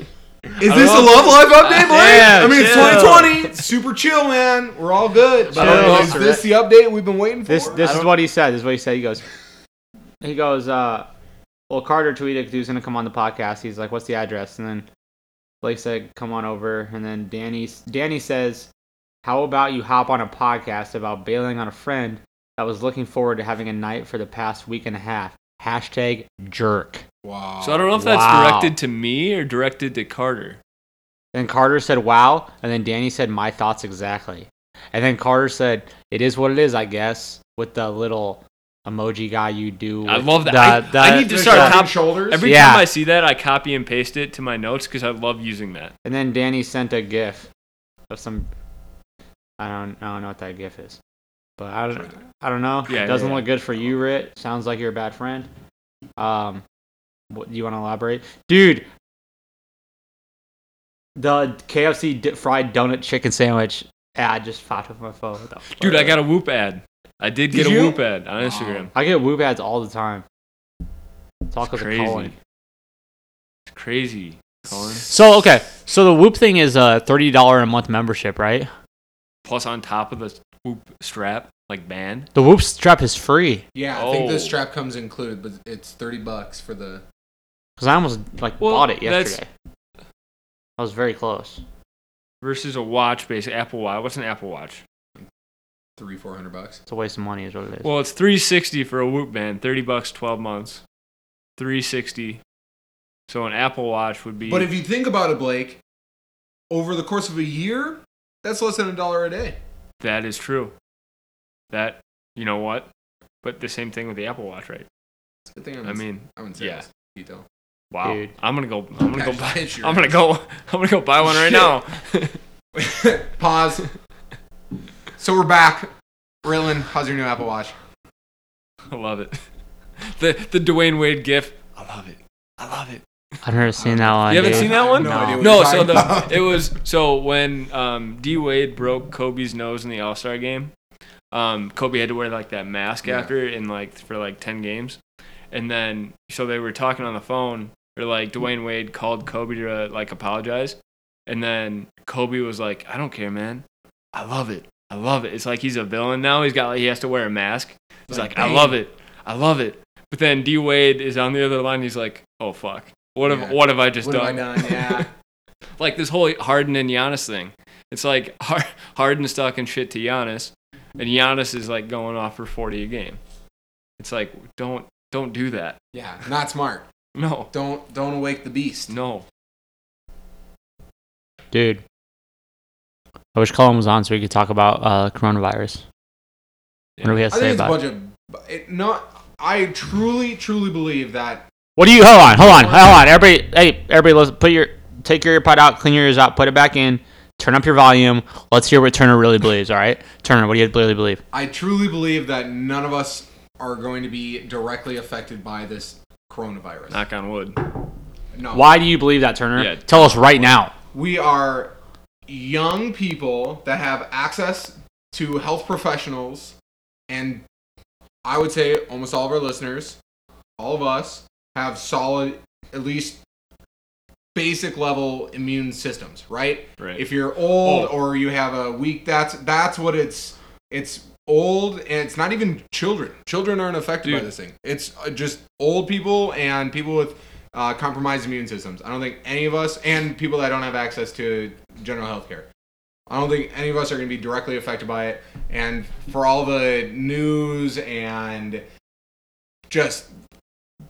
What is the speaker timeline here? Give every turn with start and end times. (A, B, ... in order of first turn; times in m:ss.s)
0:00.6-0:08.0 A
0:00.6-0:03.4 B
0:02.0-0:03.3 C
0:05.5-0:06.3 B
0:05.5-0:06.5 C
0:07.5-0:09.2 C
0:07.8-0:08.2 B
0:10.2-0:11.1 C
0:11.7-0:14.8 C
0:15.6-0:18.7 C
0:19.2-0:27.0 C
0:27.2-0:27.9 A
0:27.6-0:30.6 B
0:28.0-0:28.8 C
0:31.3-0:41.8 C
0:40.0-0:45.9 B
0:41.0-0:42.5 A
0:42.4-0:42.9 C
0:46.0-0:47.5 C
0:48.1-0:48.5 C
0:49.6-0:51.0 C
0:51.6-0:55.5 C
0:52.9-0:53.5 B
0:56.2-0:56.6 C
0:57.3-0:58.9 C
1:01.2-1:06.2 C
1:05.8-1:08.9 B
1:07.5-1:08.9 A
1:08.9-1:10.2 C
1:11.5-1:12.3 C
1:11.7-1:12.3 B
1:13.7-1:15.1 B
1:15.1-1:18.7 C
1:19.4-1:22.3 B
1:22.3-1:23.6 C
1:23.7-1:27.0 A
1:23.9-1:24.6 B
1:27.8-1:29.4 C
1:28.6-1:29.4 B
1:30.8-1:31.6 C
1:32.4-1:34.8 B
1:36.0-1:36.8 A
1:36.9-1:37.9 C
1:37.8-1:40.8 B
1:41.6-1:42.4 B
1:43.3-1:44.7 B
1:44.5-1:45.8 A
1:46.7-1:49.6 A
1:50.0-1:50.7 B
1:51.7-1:52.9 B
1:53.4-1:54.9 B
1:55.5-1:57.4 A
1:55.8-1:56.8 B
1:57.9-2:02.4 B
1:58.0-1:58.3 C
1:59.1-2:00.2 A
2:01.3-2:01.7 A
2:02.7-2:03.8 A
2:05.2-2:05.9 A
2:06.4-2:07.7 A
2:08.9-2:09.4 B
2:10.0-2:13.0 B
2:13.4-2:15.7 C
2:13.8-2:16.6 A
2:14.3-2:20.7 B
2:21.3-2:25.0 B
2:23.0-2:23.3 A
2:25.5-2:45.1 B
2:38.1-2:38.8 A
2:43.2-2:45.1 A
2:45.8-2:53.2 B
2:54.0-2:55.8 B
2:55.9-2:56.8 A
2:57.1-2:57.5 B
2:57.5-2:58.9 A
2:58.9-2:59.2 B
3:01.5-3:01.8 C
3:03.3-3:05.8 C
3:07.0-3:07.8 C
3:07.3-3:11.5 A
3:11.8-3:21.2 C
3:12.2-3:13.1 A
3:21.3-3:27.0 A
3:26.9-3:27.6 B
3:28.3-3:28.8 A
3:28.5-3:30.7 C
3:29.5-3:30.5 B
3:30.9-3:31.7 A
3:32.3-3:36.5 A
3:37.1-3:37.4 A
3:38.2-3:40.0 A
3:40.6-3:43.2 A
3:44.3-4:02.4 A
3:46.8-3:48.0 B
4:03.1-4:08.6 A
4:09.7-4:10.1 A